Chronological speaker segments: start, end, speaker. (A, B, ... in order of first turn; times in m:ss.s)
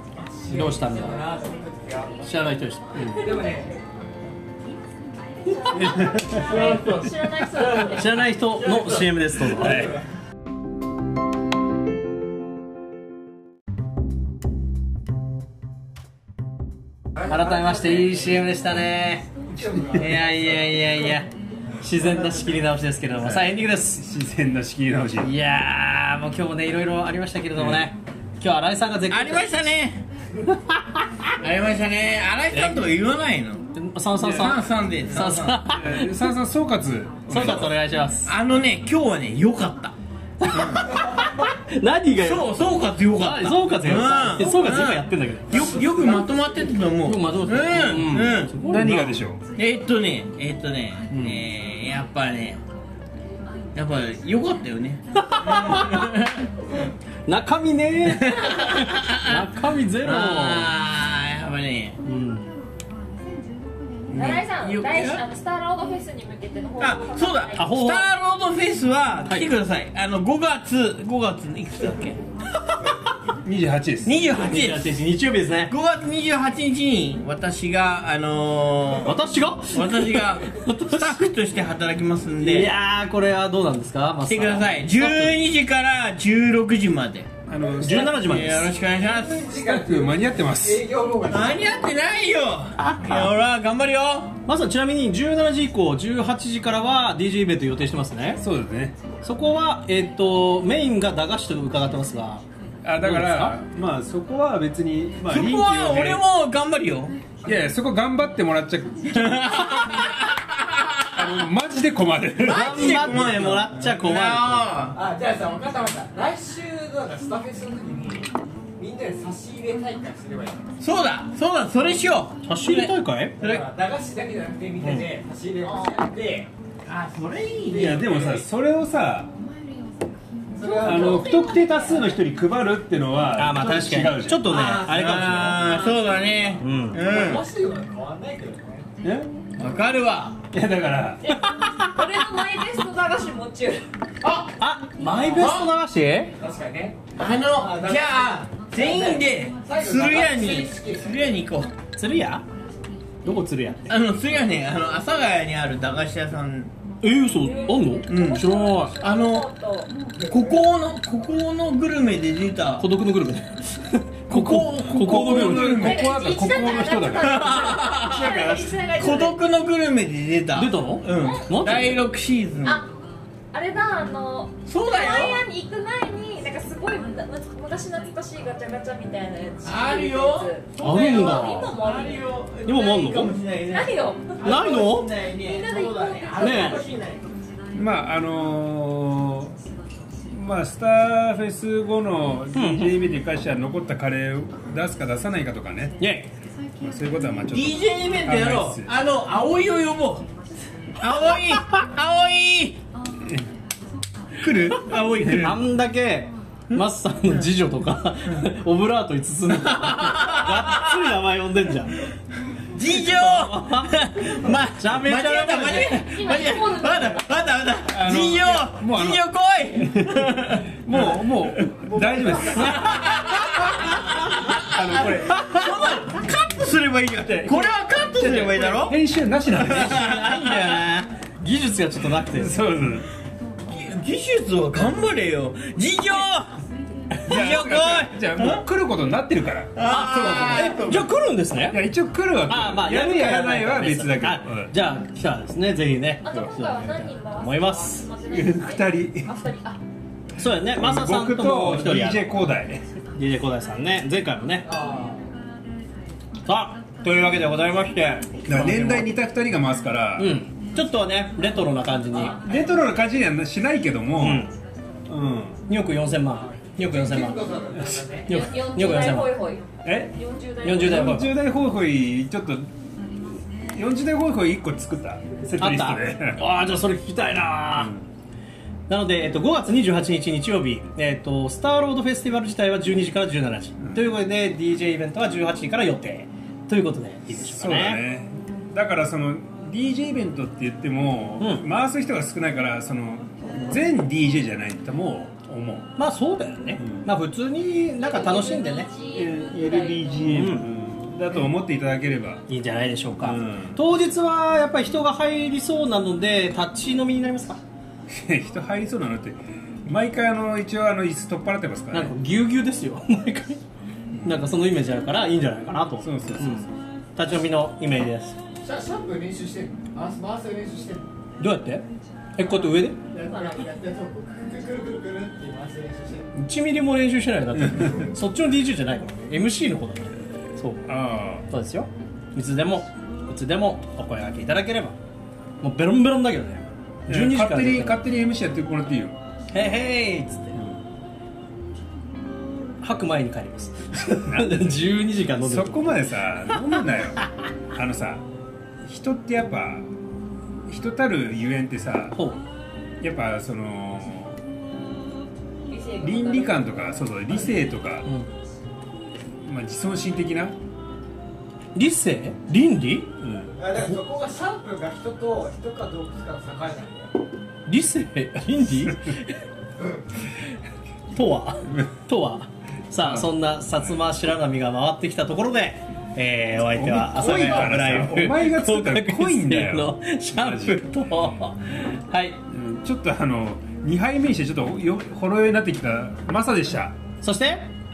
0:00.1-0:02.3 A
0:00.5-0:01.3 B
0:02.2-0:03.2 B
0:03.1-0:03.7 A
0:05.4-0:08.3 C
0:05.7-0:06.6 D
0:06.3-0:07.0 A
0:06.5-0:08.1 E
0:07.7-0:09.9 B
0:08.6-0:09.1 E
0:09.3-0:10.0 A
0:09.5-0:10.0 D
0:17.2-0:19.3 B
0:17.3-0:18.4 A
0:19.5-0:21.2 A
0:19.9-0:21.3 B
0:21.8-0:24.0 B
0:22.1-0:22.4 A
0:23.2-0:25.3 D
0:25.2-0:29.5 B
0:27.5-0:27.9 D
0:29.1-0:30.0 E
0:30.7-0:31.0 B
0:31.4-0:33.7 E
0:33.7-0:36.3 B
0:34.2-0:34.6 D
0:34.2-0:35.7 E
0:35.6-0:37.7 D
0:37.3-0:38.3 B
0:37.3-0:39.9 E
0:40.4-0:46.0 B
0:40.4-0:41.2 E
0:42.2-0:48.5 E
0:45.6-0:46.7 A
0:47.0-0:49.2 B
0:48.6-0:49.4 D
0:49.6-0:52.6 E
0:51.1-0:51.4 B
0:53.7-0:56.4 E
0:55.1-0:56.1 B
0:57.2-1:00.7 B
0:58.1-0:59.5 E
1:00.0-1:02.0 E
1:02.0-1:02.5 B
1:04.1-1:05.2 E
1:04.1-1:07.8 C
1:06.8-1:12.9 E
1:07.6-1:08.1 B
1:13.4-1:14.2 D
1:14.0-1:14.9 E
1:14.3-1:15.7 B
1:15.7-1:22.7 E
1:19.0-1:21.3 B
1:22.4-1:25.4 B
1:24.3-1:27.3 E
1:27.5-1:28.4 D
1:27.8-1:28.8 B
1:27.8-1:29.5 E
1:29.0-1:31.6 A
1:29.4-1:30.8 D
1:31.2-1:34.3 E
1:32.8-1:33.3 B
1:34.4-1:38.4 B
1:38.4-1:39.0 D
1:39.2-1:42.4 B
1:42.8-1:46.2 D
1:43.0-1:43.6 B
1:45.2-1:47.2 E
1:47.4-1:50.0 D
1:49.1-1:51.3 E
1:51.1-1:53.7 D
1:52.4-1:55.0 E
1:52.4-1:54.7 B
1:54.9-2:00.8 A
2:00.8-2:02.9 E
2:02.4-2:03.6 B
2:03.4-2:08.4 A
2:04.8-2:05.1 B
2:05.6-2:06.0 C
2:06.9-2:08.4 E
2:07.7-2:09.3 D
2:10.5-2:11.8 A
2:10.6-2:12.2 C
2:10.8-2:14.5 D
2:13.4-2:15.7 B
2:14.4-2:17.4 E
2:14.5-2:16.2 A
2:15.1-2:15.5 D
2:16.6-2:17.0 B
2:16.9-2:18.9 A
2:19.0-2:19.3 D
2:19.6-2:20.4 E
2:20.5-2:21.2 D
2:21.2-2:23.8 C
2:21.3-2:22.3 B
2:24.6-2:26.3 B
2:25.3-2:25.7 E
2:26.4-2:31.3 A
2:27.1-2:31.7 E
2:32.0-2:32.4 B
2:33.2-2:33.9 B
2:33.9-2:36.7 E
2:37.0-2:39.0 B
2:37.4-2:39.9 C
2:38.1-2:39.5 E
2:40.2-2:40.5 A
2:40.2-2:42.8 E
2:42.8-2:46.0 B
2:44.3-2:46.0 E
2:44.7-2:48.7 D
2:45.6-2:49.4 C
2:47.1-2:52.8 E
2:50.5-2:52.0 B
2:53.5-3:04.5 C
2:54.7-2:55.4 E
2:59.6-3:07.3 E
3:00.8-3:01.7 B
3:02.6-3:03.3 B
3:04.4-3:05.1 B
3:05.3-3:06.6 C
3:06.4-3:06.8 B
3:06.4-3:07.0 A
3:07.7-3:09.6 D
3:10.3-3:15.9 D
3:12.5-3:13.0 B
3:16.0-3:16.3 B
3:16.8-3:18.9 D
3:17.5-3:20.3 E
3:21.0-3:22.8 E
3:24.4-3:25.6 E
3:24.5-3:32.0 B
3:29.5-3:31.0 E
3:32.7-3:41.7 E
3:32.8-3:36.1 B
3:35.5-3:37.3 C
3:37.8-3:43.0 D
3:41.9-3:42.2 A
3:42.2-3:51.0 E
3:42.6-3:43.0 B
3:44.6-3:46.3 D
3:47.2-3:50.2 D
3:49.8-3:52.6 B
3:52.3-3:53.1 D
3:53.6-3:56.6 E
3:57.2-3:58.6 E
3:57.2-4:01.0 D
3:59.7-4:01.1 E
3:59.9-4:01.8 B
4:01.7-4:04.7 D
4:02.5-4:08.1 B
4:06.2-4:09.8 C
4:08.3-4:09.3 D
4:10.4-4:12.3 B
4:10.8-4:12.8 D
4:13.1-4:14.7 B
4:14.6-4:15.3 A
4:16.4-4:19.1 B
4:18.4-4:20.3 D
4:20.2-4:22.4 B
4:22.1-4:22.4 A
4:22.3-4:24.5 D
4:24.2-4:24.5 B
4:25.1-4:25.6 D
4:25.7-4:27.5 B
4:26.3-4:28.4 A
4:28.2-4:29.3 B
4:28.2-4:31.2 C
4:29.8-4:32.7 D
4:30.6-4:31.3 B
4:33.7-4:36.4 D
4:35.6-4:37.9 B
4:37.8-4:38.0 D
4:38.9-4:48.0 B
4:43.8-4:44.1 D
4:47.3-4:56.0 D
4:51.4-4:51.6 B
4:56.0-4:58.9 B
4:56.8-4:57.1 D
4:58.0-5:00.5 C
4:59.1-5:02.4 D
5:00.3-5:00.8 B
5:02.5-5:07.6 B
5:03.2-5:03.8 D
5:08.1-5:12.2 D
5:11.9-5:13.6 B
5:14.1-5:14.4 D
5:14.2-5:18.4 B
5:16.0-5:16.6 D
5:18.6-5:21.0 A
5:21.4-5:21.8 B
5:22.4-5:23.0 B
5:22.4-5:26.3 A
5:26.3-5:34.9 B
5:27.6-5:28.0 D
5:30.9-5:31.4 D
5:35.6-5:38.0 B
5:37.1-5:39.2 D
5:39.5-5:40.6 B
5:42.8-5:46.1 B
5:43.9-5:48.2 D
5:48.8-5:49.9 D
5:50.7-5:52.2 D
5:52.2-5:52.4 B
5:53.0-5:54.4 D
5:55.7-5:56.9 C
5:56.0-5:58.1 D
5:59.4-6:00.6 D
6:01.7-6:03.1 B
6:03.2-6:03.6 D
6:03.6-6:07.1 A
6:07.6-6:09.4 B
6:11.1-6:22.4 B
6:13.0-6:13.3 D
6:16.6-6:20.9 D
6:22.5-6:27.0 D
6:27.2-6:27.7 B